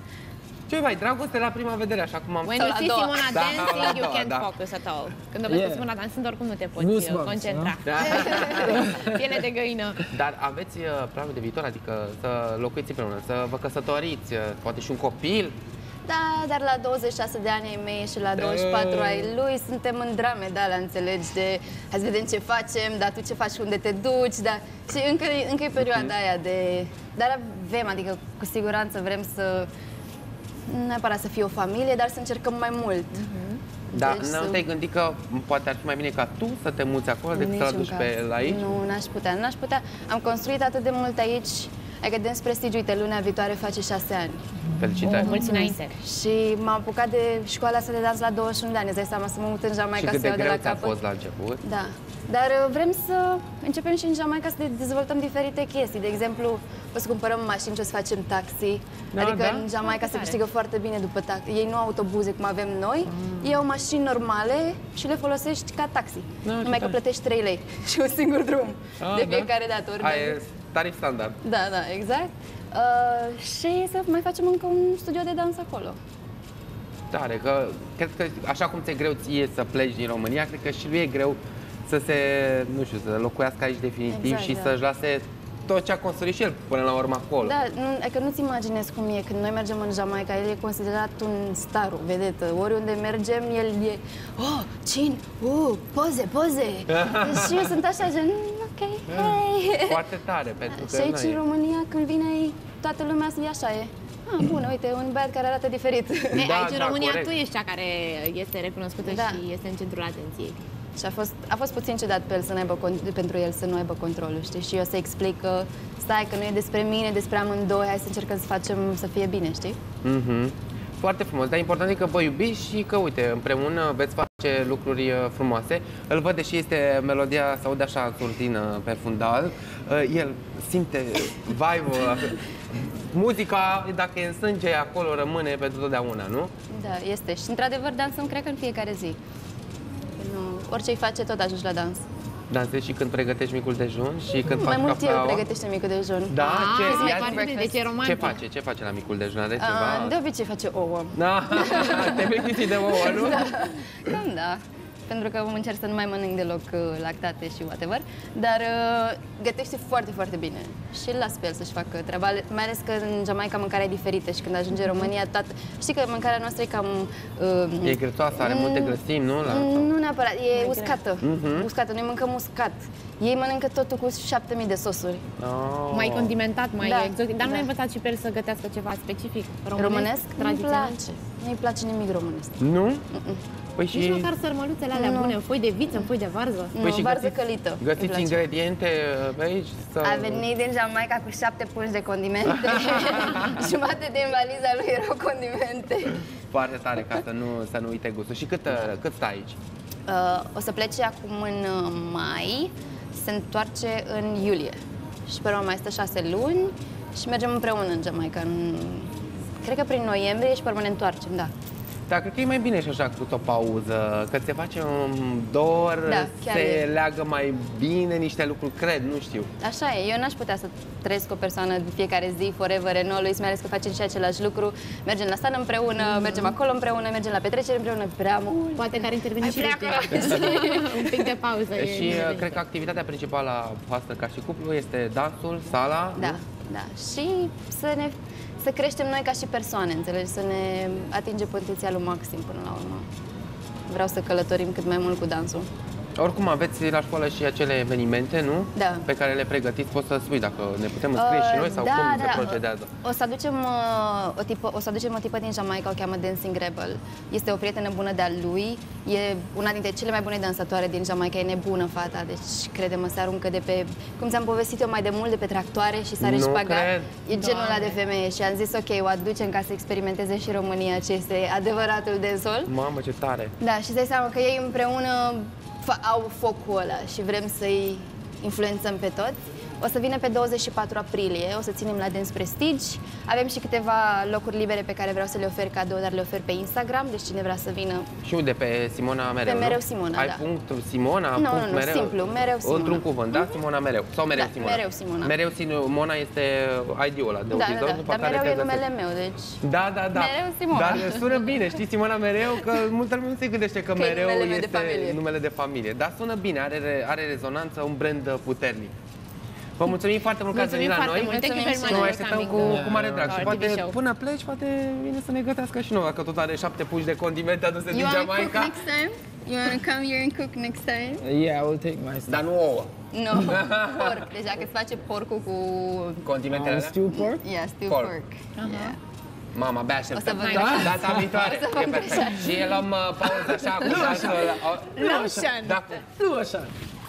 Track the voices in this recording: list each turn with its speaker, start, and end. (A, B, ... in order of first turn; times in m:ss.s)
0:00.7-0:02.6 A
0:02.4-0:10.0 B
0:02.6-0:03.3 C
0:03.2-0:04.5 A
0:05.5-0:05.9 D
0:06.8-0:07.8 D
0:07.9-0:08.8 A
0:08.0-0:08.8 C
0:08.7-0:09.2 D
0:10.1-0:15.6 A
0:16.0-0:29.7 C
0:18.4-0:19.3 A
0:25.8-0:26.1 A
0:30.7-0:33.2 C
0:33.2-0:33.6 B
0:33.9-0:34.6 C
0:33.9-0:38.6 A
0:37.3-0:44.4 C
0:44.8-0:45.4 A
0:45.0-0:45.9 B
0:45.0-0:51.0 C
0:49.9-0:51.6 A
0:51.6-1:10.4 C
0:59.1-0:59.7 A
0:59.8-1:00.4 B
1:03.1-1:03.6 A
1:06.4-1:07.0 A
1:09.0-1:11.4 A
1:11.4-1:16.0 C
1:17.1-1:27.5 A
1:24.1-1:24.8 C
1:27.4-1:40.0 C
1:36.9-1:37.7 A
1:39.1-1:41.4 A
1:40.7-1:46.4 C
1:46.3-1:50.6 B
1:46.4-1:47.3 A
1:49.0-1:49.4 C
1:51.0-1:59.8 C
2:00.0-2:16.5 A
2:16.7-2:19.2 C
2:20.2-2:22.0 C
2:22.5-2:25.4 A
2:24.5-2:27.8 C
2:26.3-2:30.1 A
2:26.4-2:28.4 B
2:29.6-2:55.2 C
2:31.1-2:34.1 A
2:44.8-2:45.1 B
2:47.8-2:49.9 A
2:50.5-2:51.0 B
2:51.2-2:51.7 A
2:55.4-2:56.4 A
2:55.9-3:01.0 B
2:56.8-2:57.7 C
2:59.8-3:02.6 C
3:02.6-3:03.0 A
3:03.1-3:03.4 C
3:03.8-3:04.3 A
3:03.9-3:06.8 B
3:04.9-3:05.4 C
3:06.7-3:08.4 C
3:06.8-3:10.4 A
3:10.0-3:16.2 C
3:13.2-3:13.5 A
3:16.5-3:19.6 A
3:20.1-3:29.1 C
3:29.6-3:31.5 C
3:32.1-3:39.5 A
3:36.0-3:36.9 C
3:39.6-3:51.3 C
3:48.8-3:52.6 B
3:51.8-3:56.4 A
3:56.2-4:03.1 C
4:03.9-4:05.7 C
4:06.2-4:12.9 A
4:08.8-4:09.1 C
4:11.1-4:32.7 C
4:26.2-4:27.2 A
4:27.3-4:28.0 B
4:32.6-4:33.5 A
4:33.6-4:48.1 C
4:48.2-4:58.8 A
4:49.4-4:50.4 C
4:51.4-4:53.6 C
4:54.3-4:55.3 C
4:57.5-4:59.6 C
4:59.6-5:08.9 A
5:00.1-5:01.4 C
5:04.0-5:05.2 C
5:09.8-5:18.8 A
5:10.5-5:14.0 B
5:11.3-5:12.7 C
5:12.6-5:13.6 D
5:17.9-5:21.2 C
5:21.2-5:22.4 D
5:22.3-5:24.2 A
5:23.1-5:26.2 C
5:26.2-5:27.0 A
5:26.5-5:27.4 D
5:27.1-5:29.0 C
5:28.6-5:29.0 B
5:29.5-5:36.0 A
5:30.1-5:32.8 C
5:30.4-5:30.9 B
5:30.6-5:31.2 D
5:33.7-5:36.7 D
5:35.0-5:35.9 B